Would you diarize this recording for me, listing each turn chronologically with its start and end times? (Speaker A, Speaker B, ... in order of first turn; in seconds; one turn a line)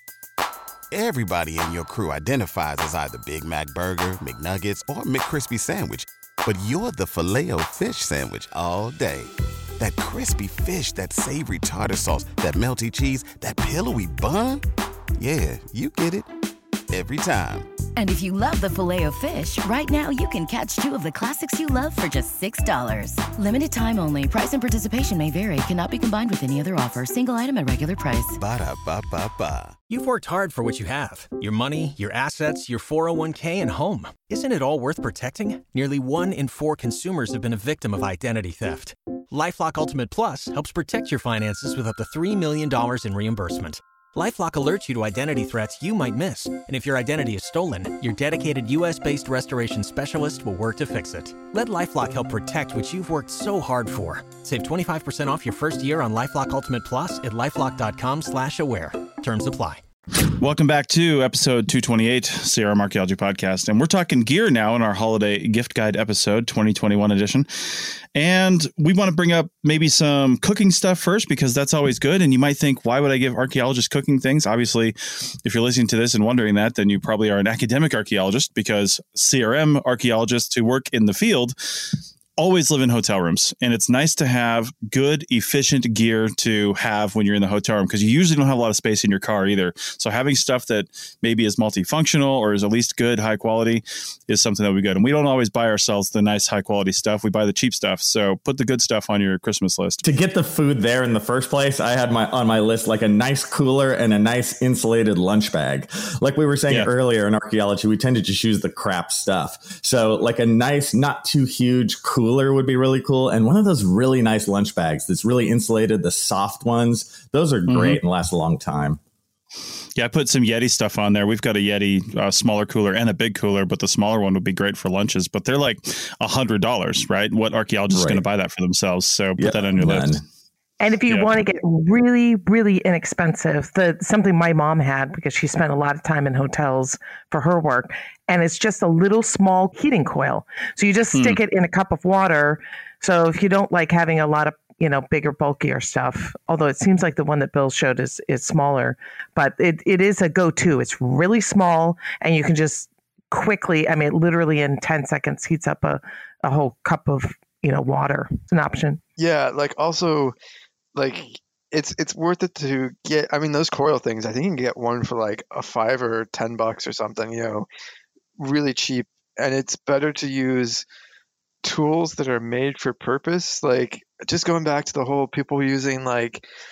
Speaker A: 0.9-14.6
Speaker A: 15.2-16.3
Speaker A: 16.9-17.7
Speaker B: 18.0-28.4
Speaker A: 28.4-29.8
Speaker C: 29.9-59.8
Speaker D: 60.4-100.0
Speaker E: 100.0-119.0
Speaker D: 117.7-118.0
Speaker D: 120.0-130.2
Speaker E: 127.9-128.2
Speaker E: 129.4-130.2
Speaker F: 130.8-159.0
Speaker D: 141.1-141.4
Speaker G: 159.2-160.3
Speaker G: 160.9-167.7
Speaker G: 168.4-170.8
Speaker G: 171.6-176.4